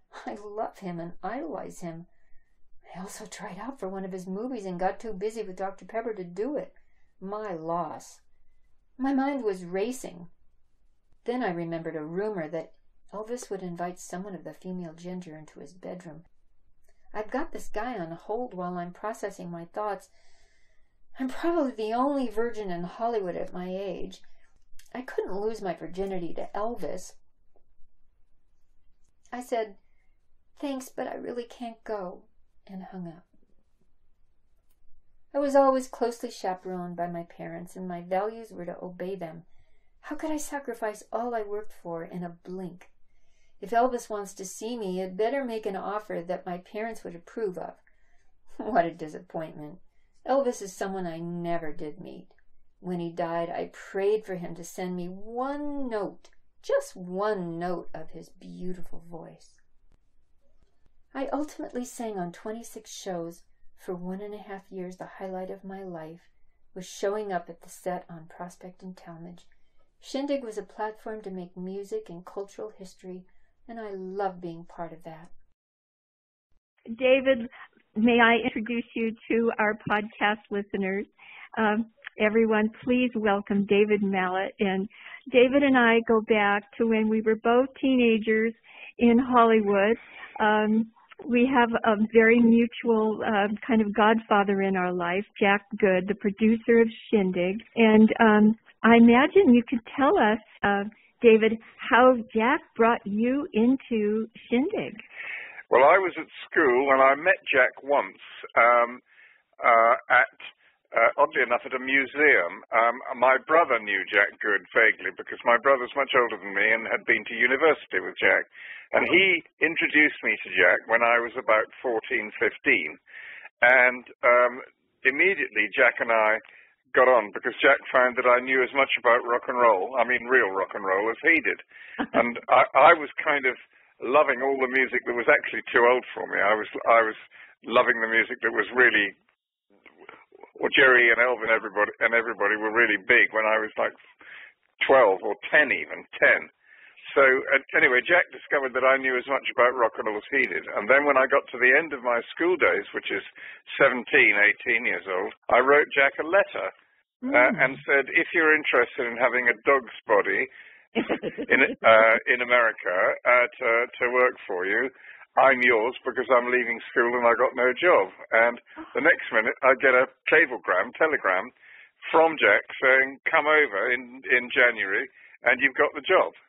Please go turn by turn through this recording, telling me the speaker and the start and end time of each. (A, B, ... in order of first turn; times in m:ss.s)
0:00.1-0:02.1 A
0:02.9-0:08.2 A
0:09.0-0:10.3 A
0:11.2-0:16.3 A
0:17.1-0:20.1 A
0:21.2-0:24.2 A
0:25.0-0:27.2 A
0:29.3-0:29.8 A
0:30.6-0:33.3 A
0:35.3-0:39.4 A
0:40.0-0:42.9 A
0:43.6-0:47.8 A
0:48.6-0:59.6 A
1:01.1-1:09.5 A
1:10.0-1:15.3 A
1:16.9-1:45.0 B
1:45.7-1:49.0 C
1:49.6-1:50.3 C
1:50.9-2:03.0 C
2:03.6-2:06.4 C
2:06.9-2:19.1 C
2:20.6-2:24.0 C
2:24.8-2:26.5 C
2:27.1-2:36.7 C
2:37.2-2:37.8 B
2:37.3-2:40.5 C
2:41.0-2:41.4 B
2:41.4-2:51.5 C
2:52.0-2:56.4 C